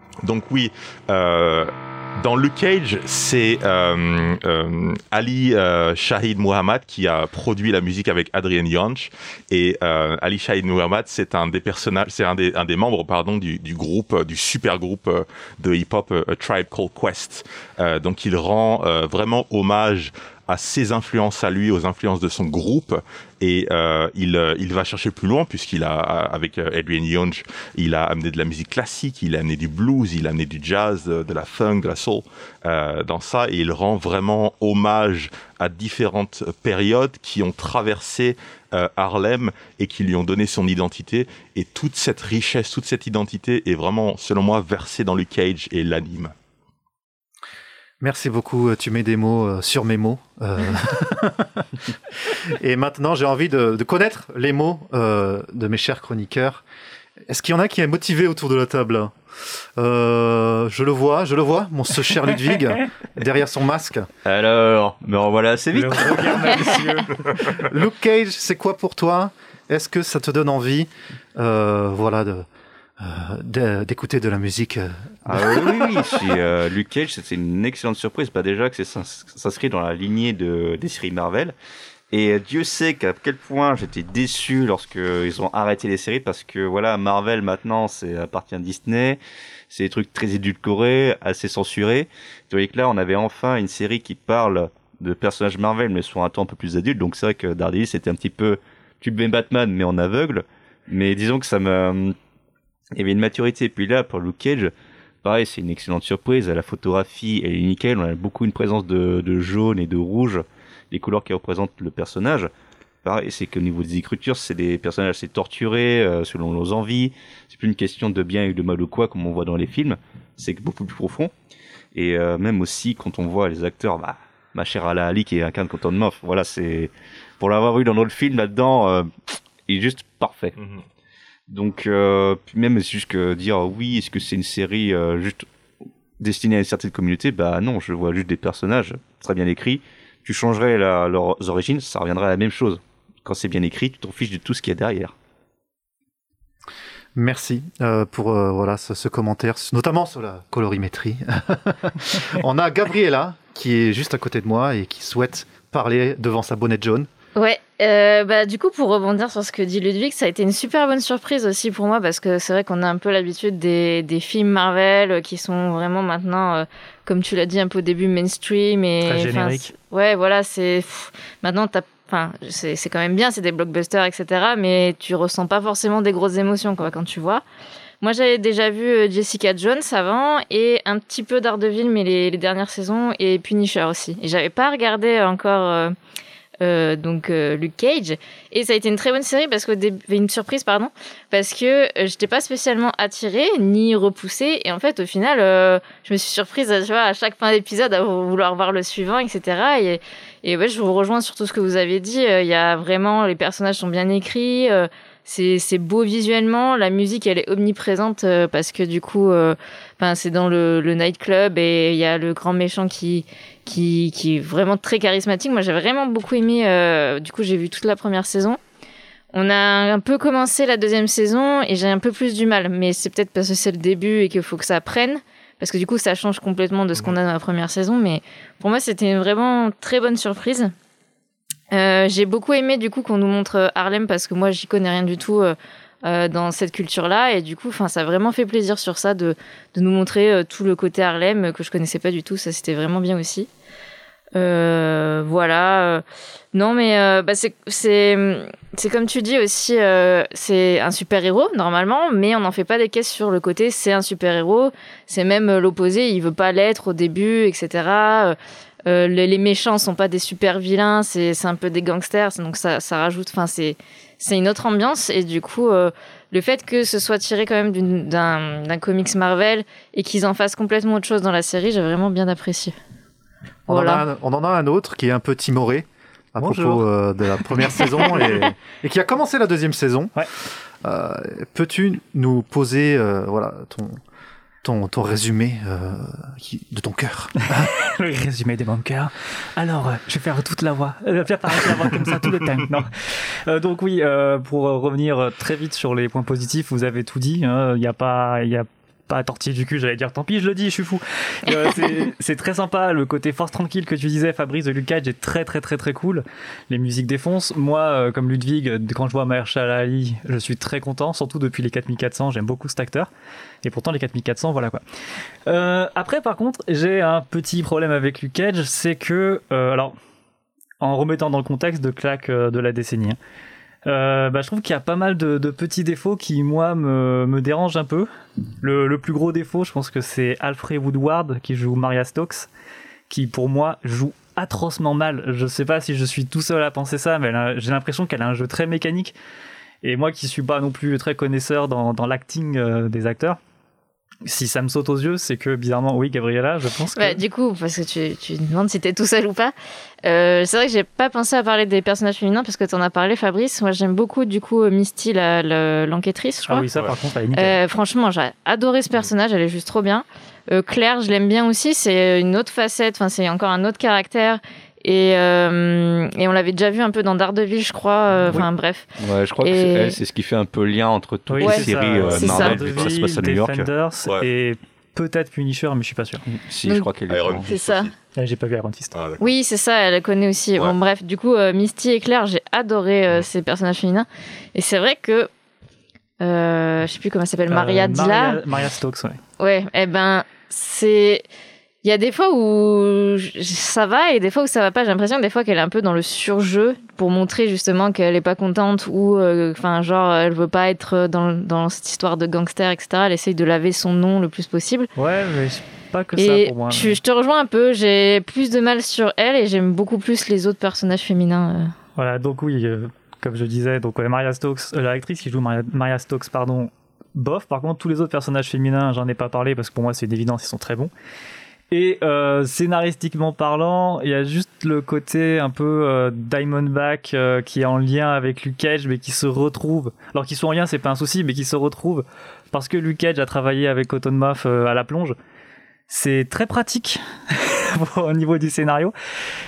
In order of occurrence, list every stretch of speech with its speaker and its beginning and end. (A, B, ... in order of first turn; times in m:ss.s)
0:00.2-0:46.3 A
0:48.0-0:51.6 B
0:52.2-0:56.6 B
0:57.3-0:59.1 B
0:59.8-1:04.1 B
1:04.2-1:06.8 C
1:05.7-1:07.4 D
1:07.6-1:12.5 B
1:13.0-1:16.0 B
1:15.3-1:21.6 C
1:22.1-1:29.2 C
1:29.7-1:42.2 C
1:43.0-1:44.7 C
1:45.2-1:52.5 C
1:53.0-2:01.3 C
2:02.0-2:09.1 C
2:09.7-2:10.6 C
2:11.5-2:15.5 C
2:16.2-2:25.1 C
2:27.2-2:37.1 B
2:37.4-2:57.4 E
2:49.0-2:49.7 D
2:58.0-3:06.0 E
3:06.6-3:38.6 E
3:39.3-3:50.7 E
3:51.7-4:03.5 E
4:04.4-4:32.7 E
4:33.7-4:40.1 B
4:33.7-4:34.0 E
4:36.4-4:36.8 D
4:40.8-4:44.0 B
4:44.6-4:47.7 B
4:47.6-5:13.1 D
5:13.6-5:14.8 D
5:15.5-5:20.0 D
5:20.8-5:23.2 D
5:23.9-5:28.1 D
5:28.6-5:32.5 D
5:33.1-5:39.2 D
5:39.8-5:43.4 D
5:44.3-5:47.2 D
5:47.0-5:56.7 E
5:56.5-5:57.6 D
5:57.3-6:08.9 E
6:09.0-6:13.7 C
6:09.4-6:10.0 E
6:11.3-6:16.2 D
6:11.4-6:12.6 E
6:16.3-6:17.5 C
6:16.6-6:16.9 E
6:17.1-6:18.0 A
6:17.5-6:17.9 E
6:18.2-6:19.0 D
6:18.9-6:19.3 A
6:19.2-6:25.3 E
6:26.2-6:28.4 E
6:27.5-6:29.2 D
6:29.4-6:31.2 E
6:31.8-6:44.9 E
6:45.0-6:47.0 D
6:46.2-6:51.7 E
6:52.0-7:00.9 D
7:01.7-7:15.2 D
7:15.9-7:18.9 D